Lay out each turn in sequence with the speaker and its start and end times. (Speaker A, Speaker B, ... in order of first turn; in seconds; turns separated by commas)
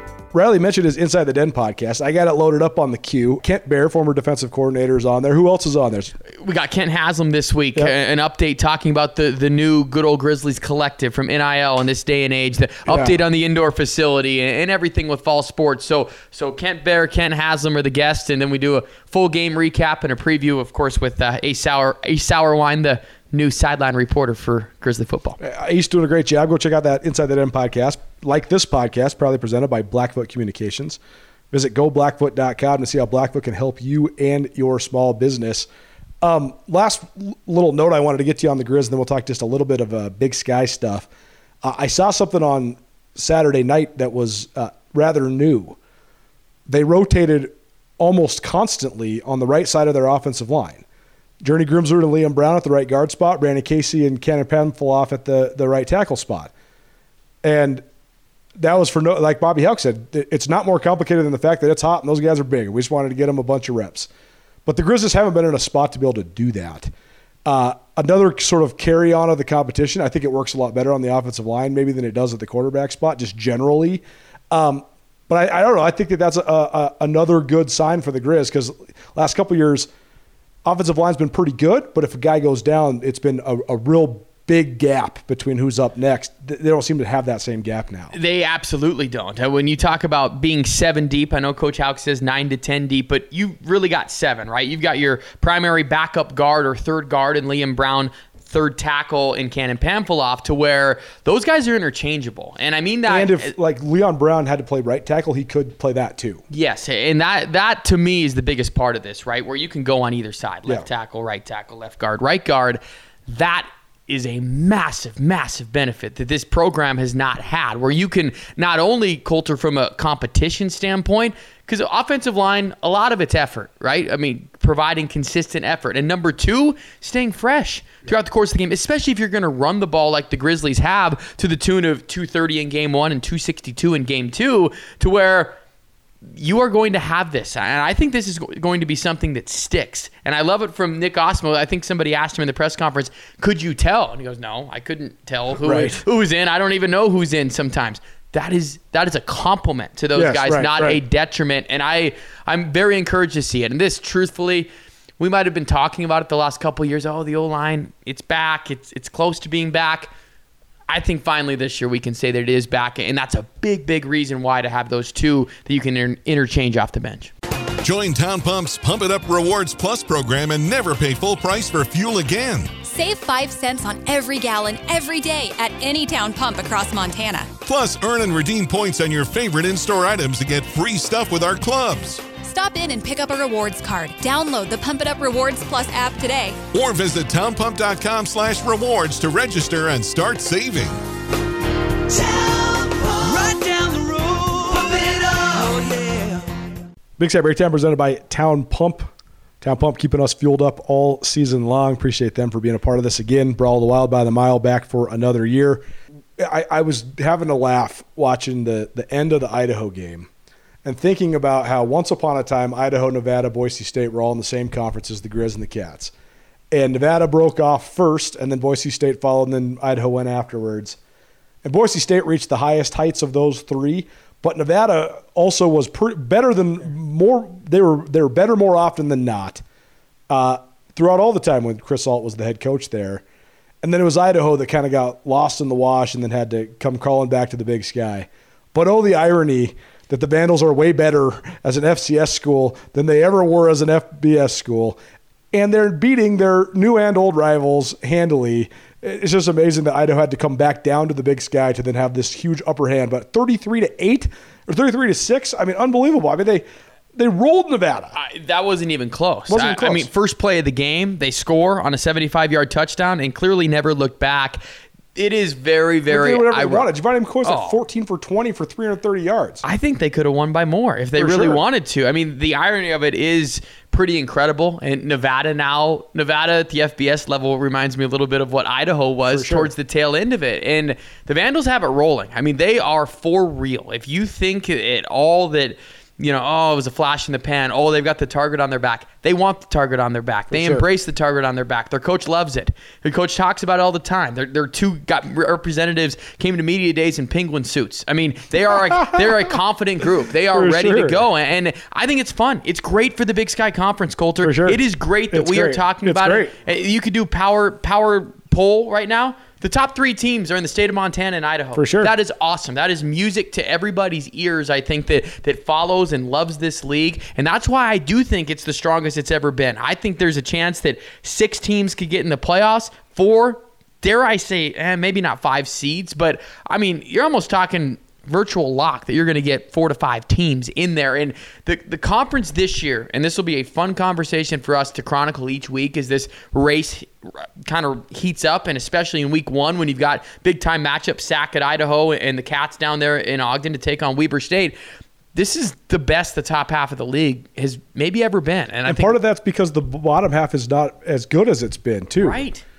Speaker A: 0.3-6.1, Speaker B: 6.4-25.4, Speaker A: 12.9-13.2, Speaker A: 25.4-31.0, Speaker A: 31.5-35.7, Speaker A: 36.2-41.1, Speaker A: 41.6-45.8, Speaker A: 46.7-50.8, Speaker A: 51.4-56.5, Speaker A: 57.4-57.8, Speaker A: 58.6-64.1, Speaker A: 64.7-66.9, Speaker A: 67.5-79.9, Speaker A: 80.6-88.1, Speaker B: 88.1-103.5, Speaker A: 103.0-106.4, Speaker B: 106.5-135.6, Speaker B: 136.3-160.1, Speaker A: 145.6-146.0, Speaker A: 150.1-151.0, Speaker B: 160.9-167.3, Speaker C: 167.8-172.7, Speaker D: 172.8-177.5, Speaker C: 177.6-182.2, Speaker D: 182.4-186.6, Speaker C: 186.7-191.0, Speaker E: 192.1-196.6, Speaker A: 197.2-199.1, Speaker A: 199.6-205.9, Speaker A: 206.4-210.3, Speaker A: 210.8-216.1, Speaker A: 216.7-221.0, Speaker A: 221.6-229.6, Speaker A: 230.3-233.2, Speaker A: 233.8-245.0, Speaker A: 245.5-258.1, Speaker B: 258.1-264.6, Speaker A: 259.5-260.1, Speaker B: 265.1-266.9, Speaker A: 266.1-269.6, Speaker B: 267.4-267.8, Speaker B: 269.6-344.8, Speaker A: 271.1-271.6, Speaker A: 279.2-279.7, Speaker A: 290.5-290.8, Speaker A: 298.7-299.4, Speaker A: 300.5-301.2, Speaker A: 304.4-306.5, Speaker A: 311.8-312.1, Speaker B: 345.3-349.2, Speaker A: 348.9-352.4, Speaker B: 352.2-352.6